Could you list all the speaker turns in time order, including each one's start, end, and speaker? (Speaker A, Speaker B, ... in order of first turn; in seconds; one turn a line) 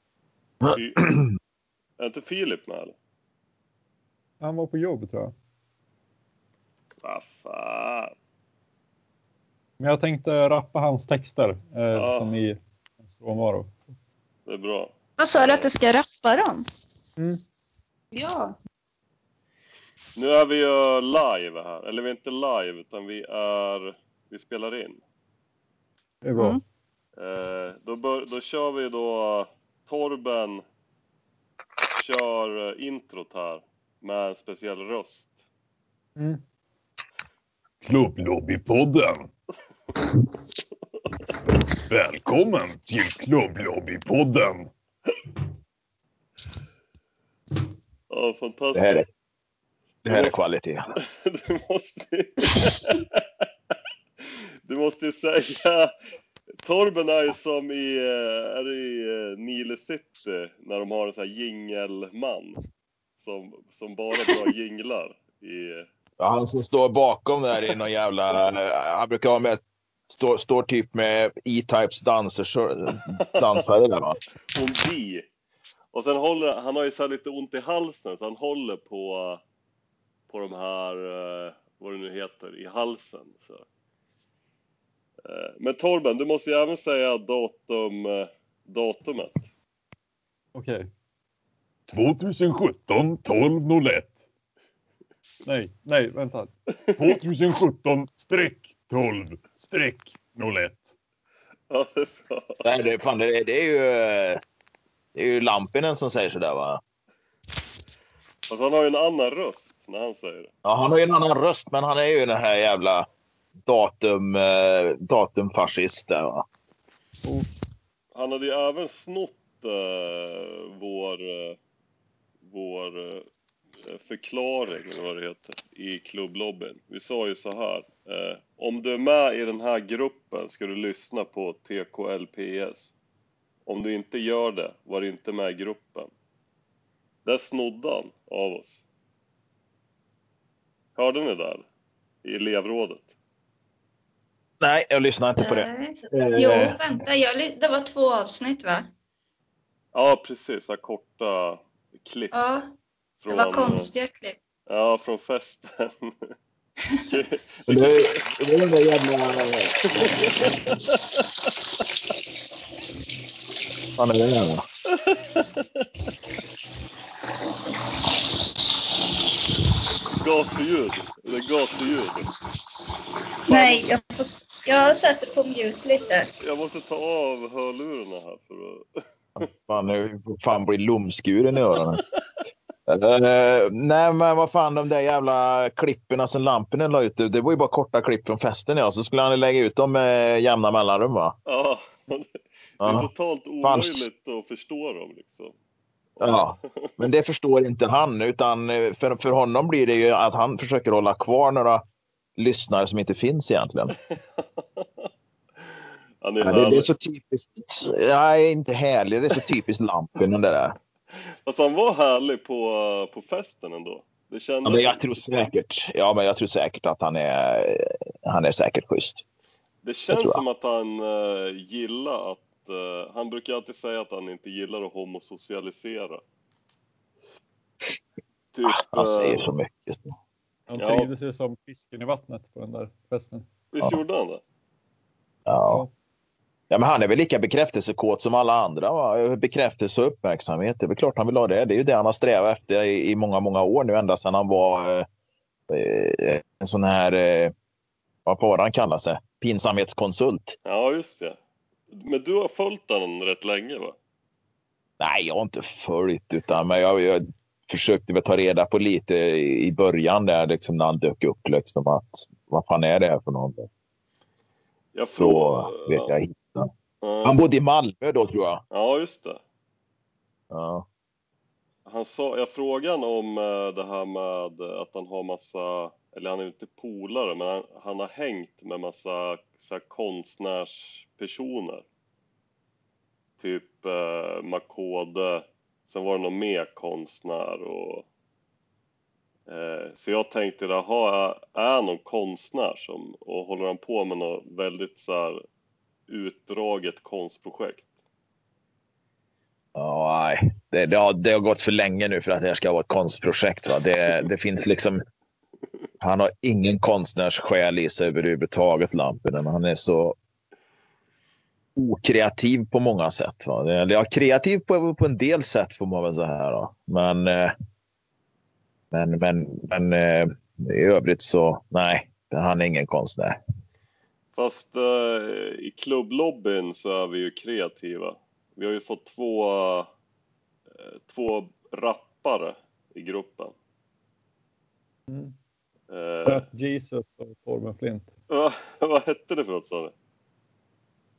Speaker A: 0.6-1.2
Speaker B: 0.7-1.1
Speaker B: 2.0-2.9
Speaker C: 4.4-5.3
Speaker B: 7.0-8.1
Speaker C: 9.8-12.6
Speaker B: 11.9-12.4
Speaker C: 13.1-13.7
Speaker B: 14.4-15.7
Speaker D: 15.2-16.6
Speaker D: 18.1-18.6
Speaker B: 20.1-25.0
Speaker C: 26.2-26.6
Speaker B: 27.2-30.6
Speaker B: 31.9-35.4
Speaker C: 36.2-36.4
Speaker E: 37.8-39.3
Speaker E: 41.9-44.7
Speaker B: 48.1-49.0
Speaker A: 48.7-49.1
Speaker A: 50.0-50.8
Speaker B: 50.1-50.4
Speaker B: 51.1-53.2
Speaker B: 54.6-55.9
Speaker B: 56.6-62.6
Speaker B: 63.2-65.9
Speaker A: 66.2-74.2
Speaker B: 74.5-75.2
Speaker B: 75.9-79.4
Speaker B: 80.3-83.6
Speaker B: 85.2-89.5
Speaker C: 90.5-90.9
Speaker E: 91.9-94.2
Speaker C: 95.4-96.5
Speaker E: 97.0-100.9
Speaker B: 101.7-102.6
Speaker A: 102.6-104.4
Speaker A: 105.1-106.8
Speaker B: 108.5-110.5
Speaker A: 110.6-113.1
Speaker A: 113.6-116.5
Speaker B: 118.1-121.6
Speaker B: 122.4-123.2
Speaker B: 123.9-132.9
Speaker B: 133.7-136.1
Speaker B: 137.2-138.8
Speaker B: 140.9-141.6
Speaker B: 142.2-143.1
Speaker A: 144.6-147.0
Speaker D: 145.4-148.9
Speaker B: 149.9-152.3
Speaker D: 152.3-152.7
Speaker B: 153.2-153.9
Speaker D: 153.3-154.4
Speaker B: 154.7-156.3
Speaker B: 157.1-158.1
Speaker A: 157.7-159.8
Speaker B: 160.0-161.2
Speaker A: 164.0-164.6
Speaker B: 164.9-165.6
Speaker B: 170.2-172.3
Speaker D: 173.5-176.3
Speaker B: 173.5-173.8
Speaker B: 176.4-178.8
Speaker A: 179.3-182.0
Speaker A: 182.9-191.3
Speaker B: 191.5-195.5
Speaker A: 192.8-193.1
Speaker A: 193.6-194.0
Speaker B: 196.2-196.9
Speaker A: 196.2-201.8
Speaker A: 202.4-204.0
Speaker B: 206.2-206.9
Speaker A: 206.4-210.8
Speaker B: 211.4-215.0
Speaker A: 214.6-219.2
Speaker B: 219.8-226.2
Speaker A: 220.1-220.4
Speaker B: 228.5-229.4
Speaker A: 228.7-230.2
Speaker C: 230.7-233.4
Speaker B: 230.8-231.1
Speaker B: 233.7-234.4
Speaker A: 235.5-235.8
Speaker A: 236.7-245.1
Speaker A: 245.7-247.5
Speaker A: 248.2-250.6
Speaker B: 250.7-251.4
Speaker B: 251.9-253.9
Speaker A: 255.0-263.7
Speaker B: 264.9-266.1
Speaker A: 265.2-266.7
Speaker B: 267.0-267.4
Speaker A: 267.2-268.6
Speaker B: 268.7-269.4
Speaker A: 270.5-270.9
Speaker B: 271.9-281.8
Speaker B: 283.4-288.1
Speaker B: 289.5-295.4
Speaker B: 296.1-297.9
Speaker A: 299.8-305.0
Speaker A: 306.0-310.1
Speaker A: 311.8-317.5
Speaker A: 318.9-323.4
Speaker B: 324.3-329.9
Speaker B: 330.8-333.5
Speaker C: 335.1-335.3
Speaker B: 335.9-336.4
Speaker C: 336.2-338.1
Speaker B: 338.3-339.9